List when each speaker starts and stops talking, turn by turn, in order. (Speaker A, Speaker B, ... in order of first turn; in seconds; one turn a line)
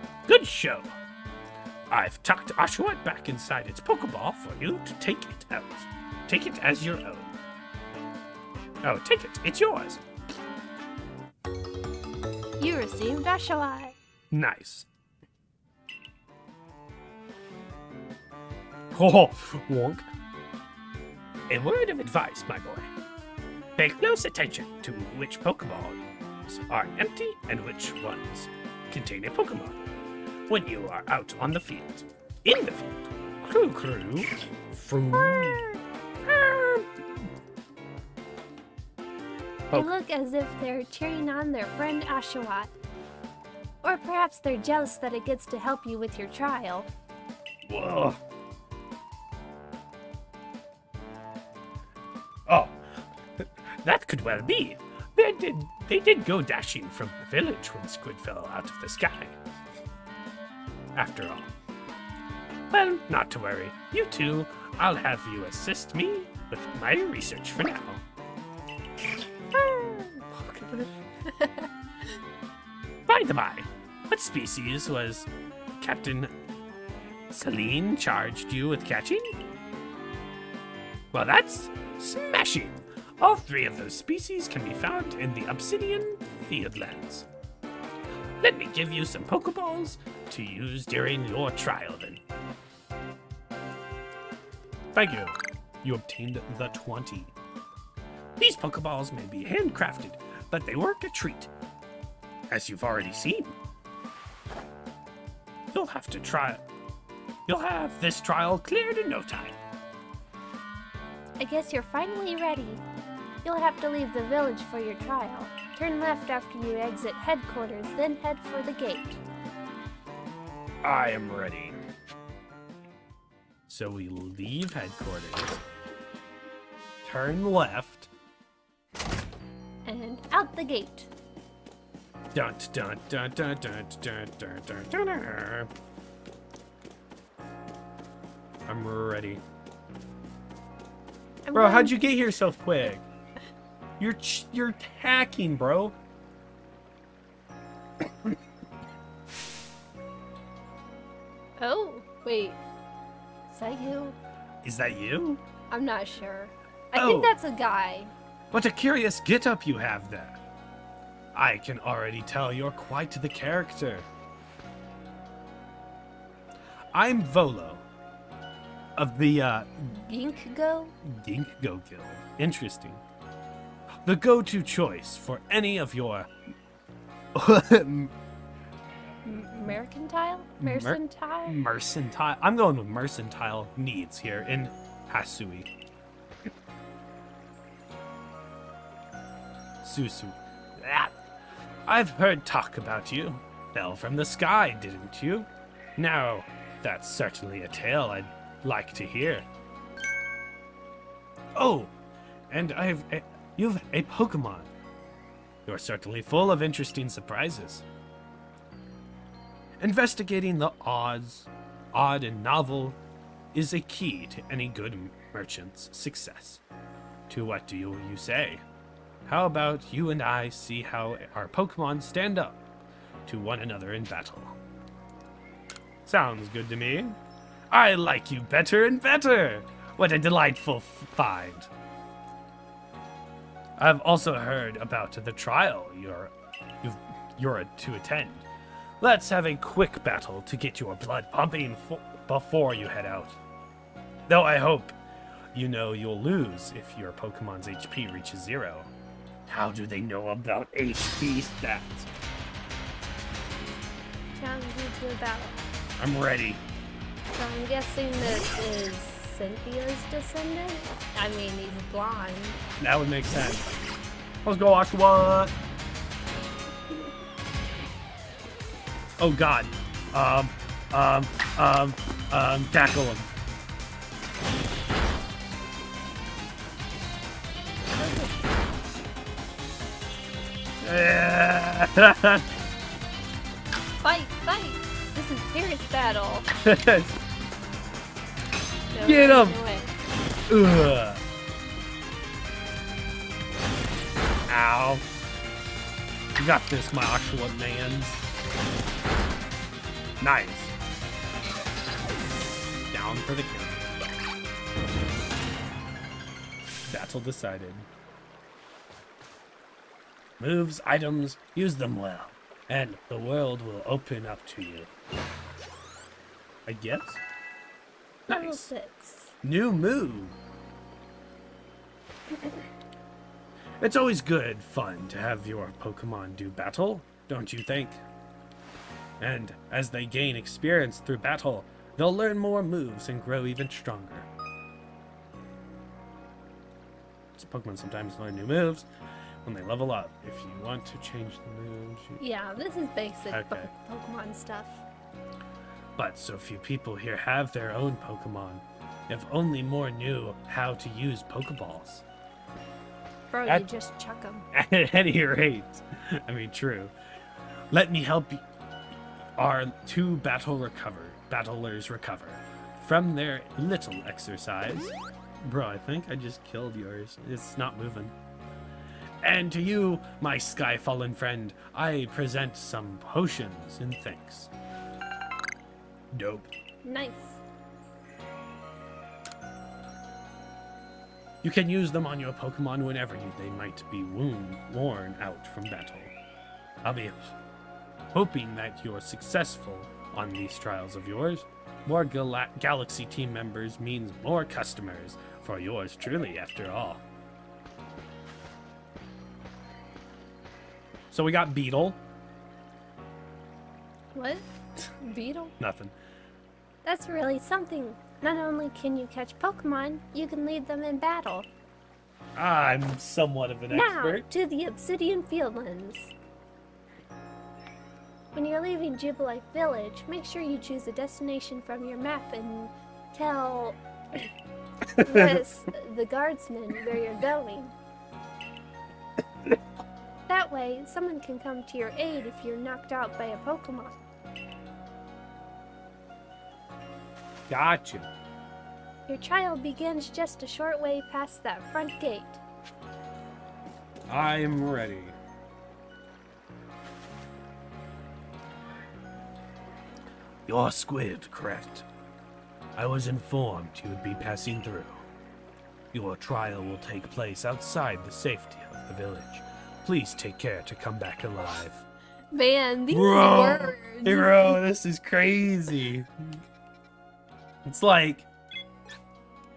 Speaker A: 0.2-0.9
Speaker A: 1.9-7.3
Speaker A: 8.8-10.0
Speaker B: 12.6-13.9
Speaker A: 14.3-14.9
Speaker A: 18.9-20.1
Speaker A: 21.5-22.9
Speaker A: 23.8-29.8
Speaker A: 30.5-35.6
Speaker B: 35.1-35.8
Speaker A: 36.2-36.9
Speaker B: 39.7-42.7
Speaker B: 43.8-46.9
Speaker A: 47.7-48.2
Speaker A: 52.5-52.8
Speaker A: 53.4-59.4
Speaker A: 60.9-61.5
Speaker A: 62.7-68.0
Speaker B: 69.5-70.2
Speaker A: 70.3-70.9
Speaker B: 71.2-71.7
Speaker A: 73.1-76.3
Speaker A: 77.3-79.3
Speaker A: 81.1-87.3
Speaker A: 88.4-92.2
Speaker A: 94.9-97.3
Speaker A: 98.4-101.5
Speaker A: 102.5-103.5
Speaker A: 105.7-106.6
Speaker A: 107.5-109.6
Speaker B: 111.4-112.8
Speaker B: 113.4-119.2
Speaker A: 120.8-121.8
Speaker A: 123.7-125.6
Speaker A: 127.0-128.1
Speaker B: 129.8-131.1
Speaker A: 132.3-135.7
Speaker A: 138.7-139.4
Speaker B: 141.4-142.1
Speaker A: 141.5-143.0
Speaker A: 144.0-145.9
Speaker B: 151.6-152.6
Speaker B: 153.5-154.2
Speaker A: 154.6-155.4
Speaker B: 155.7-158.1
Speaker A: 156.9-157.3
Speaker A: 158.5-160.4
Speaker A: 161.3-164.1
Speaker A: 166.9-167.8
Speaker A: 168.9-169.9
Speaker B: 169.9-170.9
Speaker A: 171.0-173.0
Speaker A: 174.0-176.3
Speaker A: 177.3-178.1
Speaker B: 179.2-181.6
Speaker A: 180.6-185.7
Speaker A: 189.8-191.1
Speaker A: 191.9-199.5
Speaker A: 201.6-201.9
Speaker A: 202.5-204.7
Speaker A: 205.7-207.8
Speaker A: 209.8-213.0
Speaker A: 213.5-216.6
Speaker A: 217.3-218.6
Speaker A: 219.2-222.6
Speaker A: 223.2-224.6
Speaker A: 226.0-227.2
Speaker A: 227.7-231.7
Speaker A: 233.8-238.4
Speaker A: 239.0-243.4
Speaker A: 244.3-244.9
Speaker A: 245.5-248.9
Speaker A: 249.5-252.1
Speaker B: 254.3-255.6
Speaker A: 256.0-256.6
Speaker B: 257.3-262.6
Speaker A: 262.8-263.7
Speaker A: 264.4-265.5
Speaker A: 269.2-273.3
Speaker B: 278.0-278.4
Speaker A: 280.8-282.4
Speaker B: 284.0-286.5
Speaker A: 286.6-287.2
Speaker B: 288.9-289.9
Speaker A: 289.0-289.6
Speaker A: 290.5-291.2
Speaker A: 294.5-295.0
Speaker A: 296.4-298.2
Speaker A: 300.2-300.7
Speaker A: 302.9-303.9
Speaker A: 306.9-307.9
Speaker A: 310.4-314.9
Speaker A: 316.6-317.2
Speaker A: 318.3-318.7
Speaker B: 318.3-319.3
Speaker A: 319.4-320.4
Speaker A: 323.8-328.0
Speaker A: 329.2-334.3
Speaker A: 337.4-338.9
Speaker A: 339.4-342.2
Speaker B: 342.2-344.8
Speaker A: 343.3-343.7
Speaker A: 346.0-352.0
Speaker B: 353.3-354.4
Speaker A: 354.5-356.9
Speaker A: 357.7-358.4
Speaker A: 359.4-368.1
Speaker A: 369.2-374.5
Speaker A: 376.1-376.5
Speaker B: 376.8-377.4
Speaker A: 381.4-386.1
Speaker A: 386.8-387.3
Speaker A: 388.1-397.0
Speaker A: 401.1-402.0
Speaker B: 404.1-404.4
Speaker B: 405.0-405.5
Speaker A: 405.6-405.9
Speaker B: 406.8-411.5
Speaker A: 412.4-414.2
Speaker B: 413.7-416.1
Speaker B: 418.3-423.8
Speaker A: 424.9-425.4
Speaker B: 425.0-427.7
Speaker B: 430.3-434.0
Speaker A: 437.5-438.1
Speaker B: 439.1-442.4
Speaker A: 444.1-445.2
Speaker A: 450.5-451.9
Speaker A: 452.8-455.0
Speaker A: 455.9-461.9
Speaker B: 462.3-464.6
Speaker A: 462.9-466.4
Speaker A: 467.6-468.3